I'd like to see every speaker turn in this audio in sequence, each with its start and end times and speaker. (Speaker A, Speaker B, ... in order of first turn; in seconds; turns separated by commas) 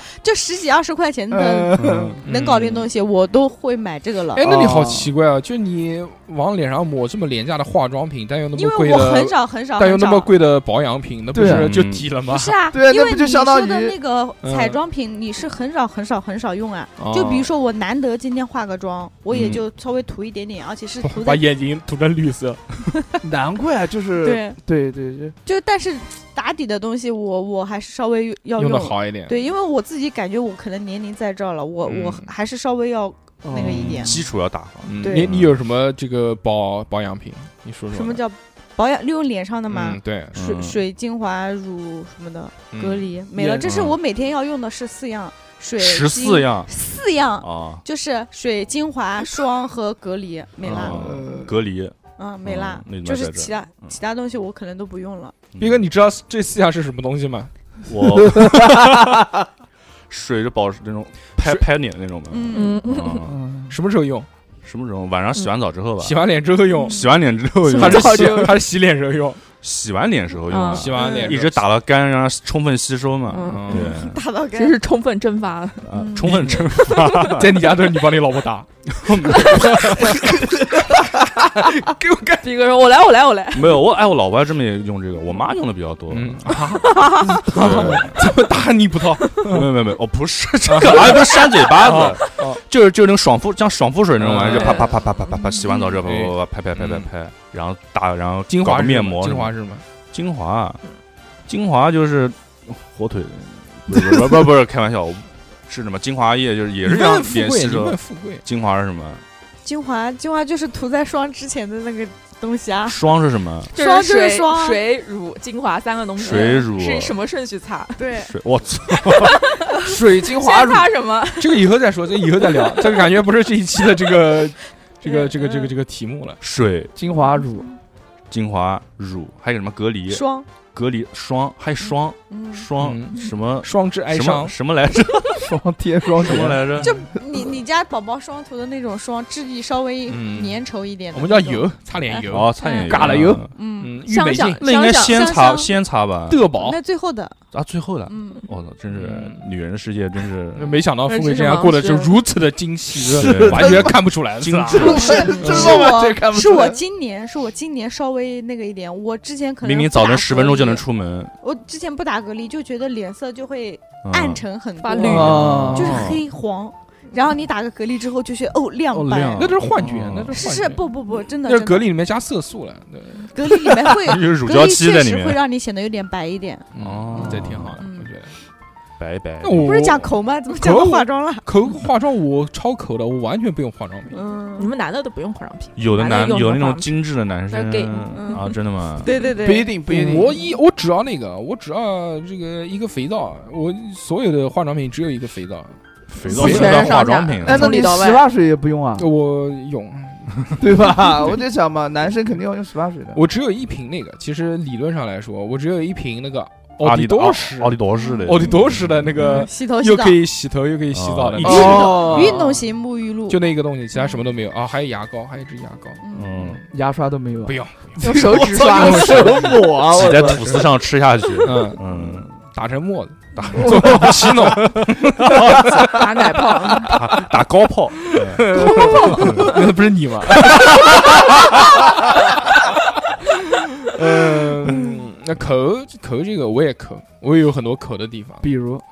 Speaker A: 0.2-4.5, Speaker B: 1.3-2.2, Speaker C: 1.8-2.2, Speaker D: 2.2-2.9, Speaker D: 4.3-12.6, Speaker B: 4.4-5.1, Speaker A: 8.5-10.3, Speaker B: 11.3-11.7, Speaker C: 11.4-12.1, Speaker A: 12.2-21.4, Speaker B: 12.7-13.9, Speaker D: 14.4-14.8, Speaker D: 17.0-17.5, Speaker C: 19.3-19.6, Speaker D: 21.0-22.9, Speaker B: 23.2-25.3, Speaker A: 24.2-24.6, Speaker A: 25.4-34.2, Speaker D: 28.6-29.4, Speaker D: 31.8-32.3, Speaker B: 33.4-34.1, Speaker C: 33.6-35.5, Speaker D: 34.8-38.2, Speaker A: 35.0-35.3, Speaker A: 37.9-51.0, Speaker D: 39.7-40.4, Speaker C: 40.3-40.8, Speaker D: 42.7-43.1, Speaker B: 43.3-43.7, Speaker C: 43.6-44.0, Speaker C: 45.8-46.7, Speaker C: 47.4-47.8, Speaker C: 50.6-54.0, Speaker B: 50.8-51.5, Speaker A: 52.2-55.4, Speaker C: 55.5-55.8, Speaker D: 55.6-57.5, Speaker C: 57.9-59.0, Speaker B: 58.2-59.0, Speaker C: 60.1-63.3, Speaker D: 61.4-61.7, Speaker A: 62.3-63.0, Speaker E: 62.5-63.2, Speaker B: 63.2-63.7, Speaker D: 63.7-64.3, Speaker C: 64.6-66.2, Speaker D: 66.0-67.1, Speaker A: 66.7-67.1, Speaker C: 66.8-68.5, Speaker D: 67.7-69.4, Speaker E: 67.8-68.5, Speaker C: 69.6-74.2, Speaker E: 70.5-71.0, Speaker D: 70.7-71.7, Speaker A: 71.0-71.4, Speaker E: 73.3-73.9, Speaker D: 73.4-73.9, Speaker A: 73.7-74.8, Speaker E: 74.5-76.0, Speaker C: 75.8-77.8, Speaker A: 75.9-76.5, Speaker D: 76.2-76.6, Speaker E: 76.7-77.4, Speaker D: 77.3-82.5, Speaker C: 79.0-80.2, Speaker E: 79.3-79.8, Speaker E: 82.4-83.8, Speaker C: 83.5-86.8, Speaker D: 86.1-89.7, Speaker E: 86.9-87.4, Speaker C: 87.4-88.2, Speaker C: 89.5-99.5, Speaker D: 90.6-92.6, Speaker D: 94.2-94.9, Speaker E: 94.5-95.0, Speaker A: 95.3-96.0, Speaker D: 96.0-97.1, Speaker D: 98.5-99.8, Speaker C: 100.1-100.8, Speaker C: 101.5-109.2, Speaker D: 106.8-108.4, Speaker A: 109.6-113.1, Speaker C: 112.8-113.7, Speaker A: 113.7-114.8, Speaker E: 113.7-118.2, Speaker C: 116.2-117.1, Speaker A: 116.2-116.6, Speaker A: 118.0-118.3, Speaker C: 118.2-119.4, Speaker E: 119.0-121.6, Speaker B: 119.8-120.9, Speaker D: 121.4-126.4, Speaker A: 125.0-125.7, Speaker C: 126.4-126.9, Speaker B: 126.9-127.7, Speaker C: 128.3-135.5, Speaker A: 130.1-130.5, Speaker A: 131.8-132.7, Speaker D: 132.8-134.5, Speaker B: 135.4-137.0, Speaker C: 136.2-137.0, Speaker A: 136.8-144.0, Speaker D: 140.1-140.6, Speaker D: 141.1-144.7, Speaker C: 142.3-143.5, Speaker B: 142.9-143.4, Speaker E: 144.0-145.3, Speaker C: 144.6-146.4, Speaker A: 144.8-145.7, Speaker D: 146.3-146.8, Speaker A: 146.5-147.4, Speaker C: 147.5-150.8, Speaker A: 148.1-148.4, Speaker D: 148.9-149.4, Speaker D: 150.5-155.9, Speaker E: 151.1-152.1, Speaker B: 153.0-154.0, Speaker C: 153.1-155.4, Speaker B: 154.7-156.8, Speaker A: 154.8-160.8, Speaker C: 159.6-161.3, Speaker A: 161.4-169.6, Speaker C: 164.1-164.4, Speaker E: 164.8-165.3, Speaker C: 164.9-166.2, Speaker B: 165.0-166.1, Speaker C: 168.9-170.4, Speaker D: 169.3-170.9, Speaker A: 170.3-171.9, Speaker D: 171.4-173.8, Speaker A: 173.2-176.7, Speaker C: 174.0-175.4, Speaker D: 176.7-178.3, Speaker C: 176.8-177.8, Speaker B: 177.2-177.4, Speaker A: 177.8-178.1, Speaker C: 179.0-179.9, Speaker D: 179.4-184.2, Speaker A: 179.6-181.4, Speaker A: 184.1-184.7, Speaker E: 184.6-186.9, Speaker C: 185.8-189.1, Speaker E: 187.5-188.6, Speaker A: 188.1-188.5, Speaker A: 189.0-189.7, Speaker B: 189.4-190.3, Speaker D: 189.9-196.9, Speaker C: 196.1-197.8, Speaker E: 196.2-198.2, Speaker B: 197.4-199.1, Speaker D: 199.0-201.3, Speaker B: 200.6-203.2, Speaker D: 203.1-212.4, Speaker C: 206.8-209.1, Speaker A: 207.9-208.4, Speaker A: 209.1-210.2, Speaker C: 210.9-212.0, Speaker A: 211.4-214.2, Speaker B: 211.4-212.6, Speaker D: 213.3-216.7, Speaker A: 216.0-216.4, Speaker C: 216.1-216.6, Speaker B: 216.7-220.7, Speaker D: 217.4-220.5, Speaker A: 218.1-219.5, Speaker C: 219.8-222.3, Speaker D: 221.4-225.9, Speaker C: 223.3-226.0, Speaker B: 223.6-224.4, Speaker E: 225.7-227.1, Speaker C: 226.9-229.6, Speaker D: 228.1-231.6, Speaker B: 228.5-229.5, Speaker D: 233.8-238.5, Speaker B: 238.4-238.8